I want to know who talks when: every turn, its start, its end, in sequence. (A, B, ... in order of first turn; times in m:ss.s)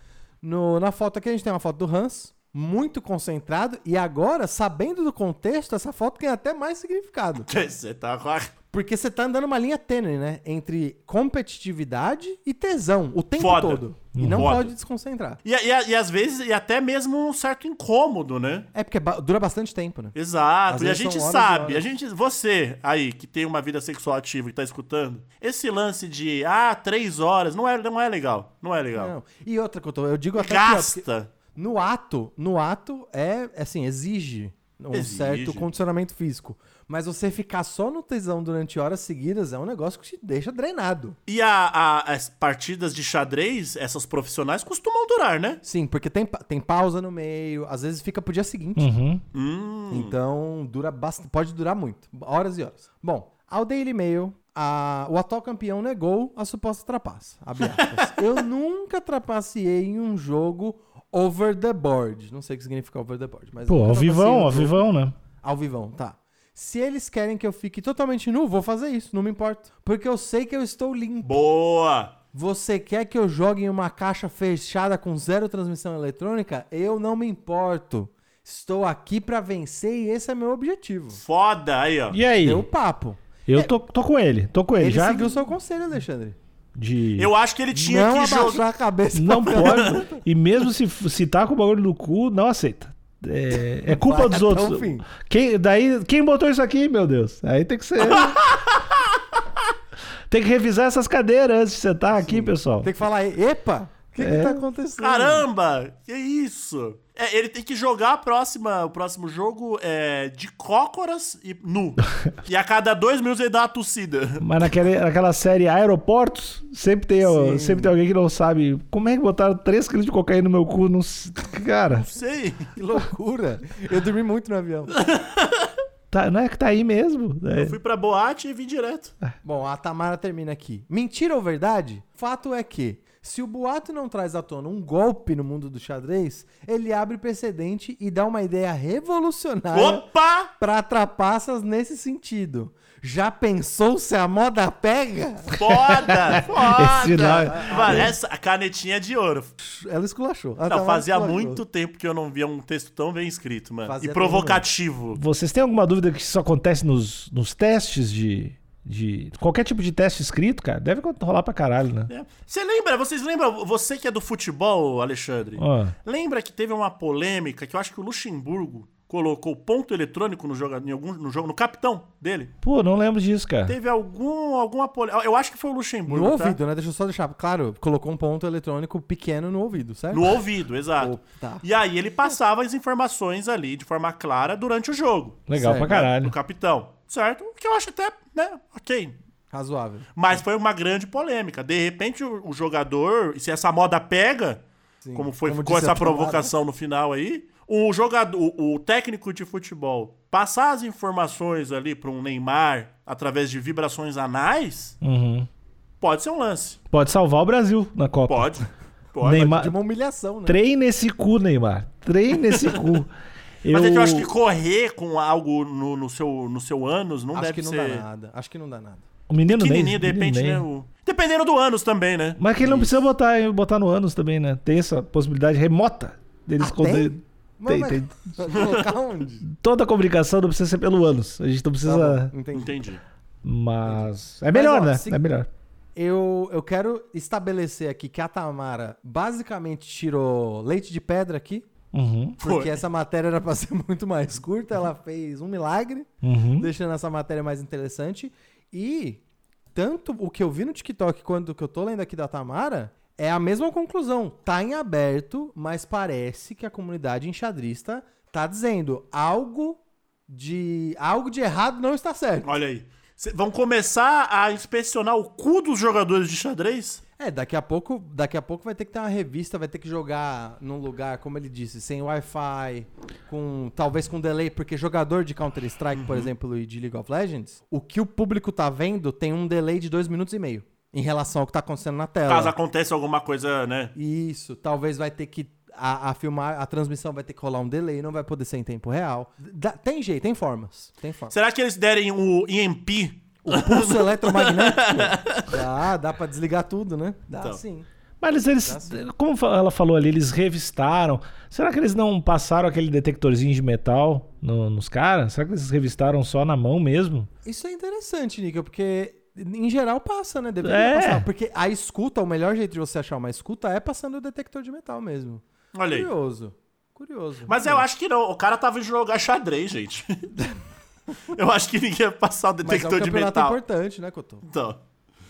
0:00.4-0:07.5 A
0:07.5-0:08.5 B
0:08.7-0:15.4 A
0:13.4-0:14.7 B
0:14.1-0:14.5 C
0:15.4-0:18.7 B
0:18.7-0:20.2 A
0:20.2-0:29.1 B
0:20.7-0:21.8 A
0:29.0-0:41.2 A
0:30.4-0:31.3 B
0:34.9-0:35.7 B
0:41.3-0:45.6 B
0:45.6-0:49.0 A
0:48.8-0:49.2 C
0:49.3-0:50.1 B
0:49.9-1:04.8 A
0:57.6-0:58.0 B
1:03.7-1:05.2 C
1:05.4-1:11.4 A
1:11.2-1:12.1 B
1:12.3-1:21.2 A
1:21.2-1:22.2 B
1:22.1-1:22.7 C
1:22.4-1:23.7 A
1:23.5-1:25.4 C
1:24.8-1:26.4 A
1:26.8-1:27.3 C
1:27.2-1:28.6 B
1:27.7-1:30.2 A
1:29.1-1:38.4 C
1:29.5-1:30.0 B
1:34.0-1:35.1 A
1:38.0-1:39.0 B
1:40.3-1:42.9 C
1:42.2-1:45.4 A
1:44.2-1:44.6 C
1:45.0-1:54.5 B
1:54.4-2:02.1 C
1:57.2-1:58.0 A
2:01.9-2:02.7 B
2:02.7-2:05.0 A
2:05.0-2:05.7 B
2:06.1-2:07.8 C
2:07.6-2:09.1 B
2:09.4-2:25.6 A
2:19.7-2:20.5 B
2:25.6-2:29.5 B
2:26.0-2:28.1 C
2:27.3-2:28.1 A
2:29.6-2:31.6 A
2:30.6-2:35.2 B
2:33.8-2:34.6 A
2:35.2-2:42.1 C
2:42.1-2:52.5 B
2:45.6-2:45.9 C
2:52.6-2:53.8 C
2:53.7-2:56.6 B
2:56.1-3:00.4 A
3:00.1-3:09.2 B
3:01.0-3:01.6 A
3:05.5-3:06.3 C
3:05.5-3:06.0 A
3:09.5-3:10.4 A
3:10.2-3:14.6 B
3:15.0-3:16.5 A
3:15.1-3:25.0 B
3:25.0-3:25.5 C
3:26.0-3:26.8 B
3:26.9-3:28.5 C
3:28.3-3:29.6 B
3:29.2-3:29.7 C
3:29.3-3:30.6 A
3:30.5-3:33.1 C
3:33.6-3:34.3 C
3:33.7-3:38.1 B
3:37.3-3:39.1 A
3:39.3-3:40.6 C
3:39.4-3:42.7 B
3:42.4-3:48.6 C
3:42.6-3:42.9 A
3:46.6-3:49.5 A
3:49.5-3:52.3 C
3:51.8-3:52.8 A
3:52.5-3:53.0 B
3:53.4-3:55.5 C
3:53.8-3:55.2 A
3:56.0-4:01.7 A
4:01.9-4:02.4 C
4:02.4-4:22.5 A
4:02.4-4:02.8 B
4:06.2-4:06.7 C
4:22.4-4:27.0 B
4:27.2-4:42.6 A
4:35.9-4:36.3 B
4:42.3-4:43.9 B
4:44.0-4:51.4 A
4:51.3-4:55.5 B
4:53.4-4:57.9 A
4:58.2-5:07.3 C
4:58.6-4:59.0 A
5:07.4-5:17.8 A
5:10.6-5:11.3 C
5:15.7-5:16.1 B
5:17.5-5:20.3 B
5:21.3-5:23.6 B
5:22.6-5:24.5 A
5:24.4-5:24.8 B